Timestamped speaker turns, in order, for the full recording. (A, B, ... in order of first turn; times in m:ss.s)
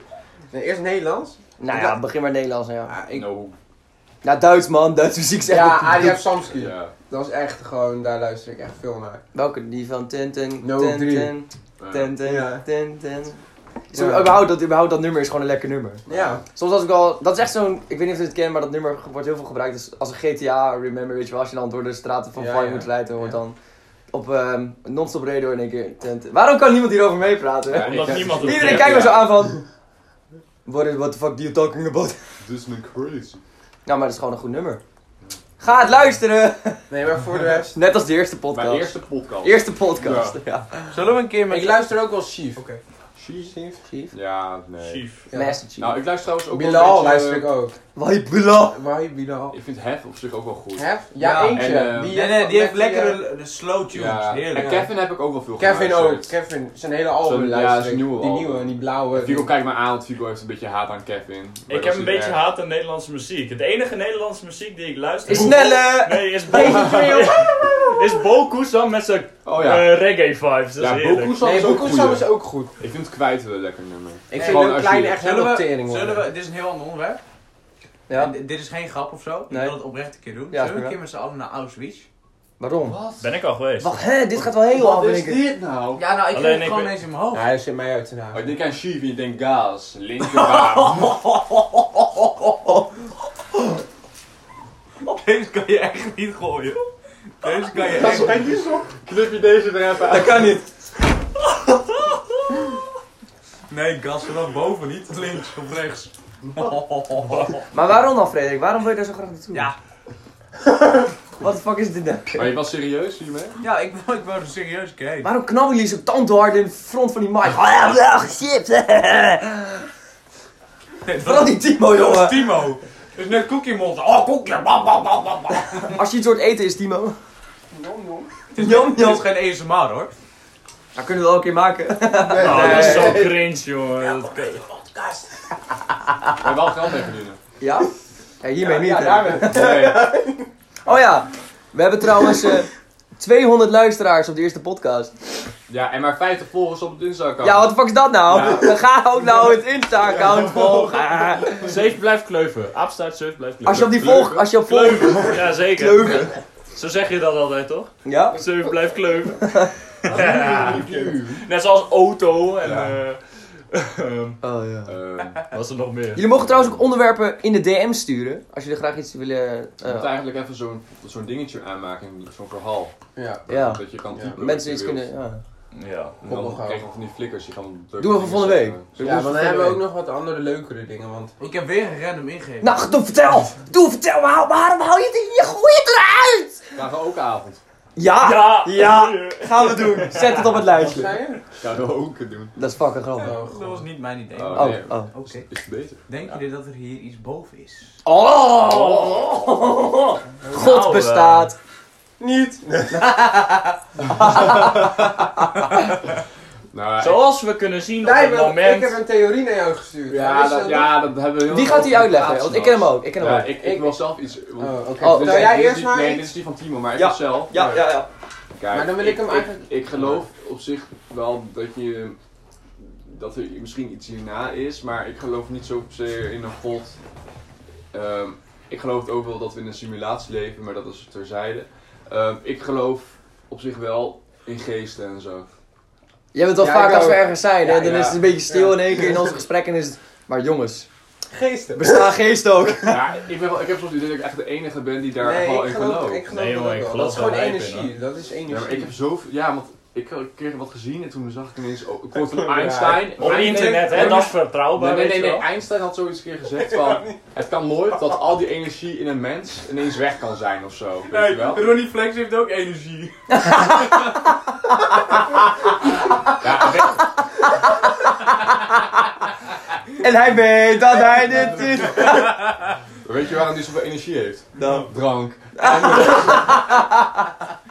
0:00.5-0:01.9 A
0:01.6-0:02.9 B
0:02.9-0:03.3 A
0:03.1-0:03.6 C
0:04.2-0:06.2 B
0:05.5-0:09.2 A
0:06.5-0:06.9 C
0:09.3-0:23.6 B
0:10.6-0:11.3 A
0:11.8-0:12.2 C
0:12.2-0:12.6 A
0:13.9-0:14.4 A
0:16.1-0:16.4 C
0:16.1-0:16.4 A
0:22.4-0:23.4 A
0:24.1-0:29.6 B
0:27.7-0:29.4 C
0:27.7-0:29.2 D
0:30.6-0:32.2 B
0:32.4-0:33.4 C
0:33.9-0:34.8 B
0:35.6-0:36.9 B
0:36.9-0:37.8 A
0:37.7-0:41.0 B
0:38.5-0:40.4 C
0:40.9-0:41.9 E
0:41.5-0:42.8 A
0:43.2-0:43.6 C
0:43.4-0:44.1 A
0:44.1-0:45.1 C
0:44.8-0:45.3 D
0:45.3-0:45.6 A
0:45.3-0:46.0 B
0:45.8-0:47.5 C
0:46.5-0:47.8 A
0:48.0-0:48.8 B
0:48.7-0:49.6 A
0:49.5-0:52.2 C
0:50.8-0:53.2 A
0:51.2-0:54.8 E
0:51.2-0:51.5 B
0:53.9-0:56.3 C
0:54.6-0:54.9 A
0:55.6-0:59.5 A
0:57.2-1:02.4 C
1:01.7-1:11.4 D
1:05.3-1:07.4 B
1:06.6-1:07.1 C
1:09.4-1:10.0 C
1:10.8-1:15.2 C
1:11.4-1:12.7 A
1:14.3-1:16.3 A
1:14.3-1:17.2 E
1:18.1-1:22.1 E
1:19.5-1:19.8 B
1:20.5-1:21.0 B
1:22.6-1:23.0 B
1:22.8-1:23.4 C
1:23.2-1:24.0 D
1:23.8-1:25.5 B
1:24.4-1:26.0 C
1:26.0-1:27.5 E
1:26.3-1:26.9 D
1:27.3-1:28.5 A
1:28.3-1:31.1 C
1:30.2-1:32.7 E
1:35.0-1:36.9 E
1:37.4-1:38.4 E
1:37.8-1:40.6 C
1:38.0-1:38.6 A
1:40.1-1:40.6 B
1:43.7-1:47.6 E
1:47.7-1:49.7 B
1:51.4-1:52.6 B
1:52.4-1:53.6 C
1:53.6-1:55.3 E
1:55.2-1:59.9 B
2:01.0-2:06.0 E
2:01.2-2:02.5 B
2:05.9-2:07.2 B
2:07.7-2:08.3 A
2:08.5-2:10.1 E
2:08.6-2:09.3 B
2:11.0-2:13.3 B
2:12.2-2:13.4 A
2:12.4-2:14.6 D
2:14.0-2:15.4 E
2:16.4-2:17.4 C
2:17.6-2:19.8 B
2:18.6-2:20.5 A
2:19.4-2:20.1 C
2:20.8-2:25.1 B
2:25.7-2:28.8 C
2:27.4-2:31.7 B
2:30.2-2:30.9 C
2:31.5-2:40.9 D
2:33.6-2:36.4 B
2:33.7-2:34.5 C
2:38.0-2:38.4 B
2:39.4-2:39.7 B
2:40.1-2:41.4 C
2:41.4-2:44.4 D
2:42.6-2:43.0 C
2:44.4-2:45.0 B
2:44.9-2:45.4 C
2:45.5-2:46.2 D
2:46.2-2:50.1 B
2:46.3-2:46.8 C
2:49.8-2:53.0 C
2:53.2-2:53.4 A
2:53.5-2:55.1 C
2:53.5-2:53.8 B
2:54.1-2:54.4 A
2:54.4-2:55.4 B
2:55.7-2:56.3 D
2:56.2-2:59.3 C
2:56.2-2:56.8 A
2:58.0-2:59.8 B
2:59.0-3:01.3 A
3:01.4-3:02.8 E
3:02.6-3:06.7 B
3:06.8-3:07.6 C
3:08.0-3:11.2 B
3:08.2-3:11.0 D
3:10.8-3:11.4 A
3:11.6-3:12.5 C
3:12.6-3:13.4 B
3:13.2-3:13.9 A
3:13.2-3:15.5 E
3:14.3-3:16.0 C
3:14.5-3:15.1 B
3:16.1-3:18.0 E
3:18.0-3:21.6 B
3:18.7-3:19.4 D
3:20.5-3:21.5 D
3:22.2-3:23.2 A
3:22.9-3:23.4 B
3:24.1-3:25.8 B
3:26.7-3:27.2 C
3:27.0-3:29.0 D
3:28.0-3:31.0 A
3:30.1-3:37.8 C
3:31.4-3:33.9 B
3:34.6-3:36.3 A
3:35.0-3:35.7 B
3:37.0-3:38.1 B
3:37.6-3:37.8 A
3:38.6-3:42.2 C
3:38.7-3:40.2 A
3:42.8-3:47.0 C
3:47.9-3:55.5 C
3:56.3-4:00.9 B
3:56.6-3:59.3 A
3:57.8-3:58.2 C
4:01.3-4:02.1 A
4:01.8-4:03.1 B
4:02.8-4:06.2 C
4:05.2-4:08.9 A
4:06.3-4:07.9 D
4:08.5-4:21.8 C
4:12.2-4:13.7 A
4:13.1-4:15.5 D
4:13.2-4:14.3 E
4:16.6-4:17.2 A
4:21.1-4:23.9 E
4:23.3-4:24.3 B
4:26.4-4:27.0 C
4:26.6-4:28.9 B
4:30.0-4:32.4 B
4:33.0-4:36.6 C
4:34.6-4:34.9 B
4:35.6-4:37.0 B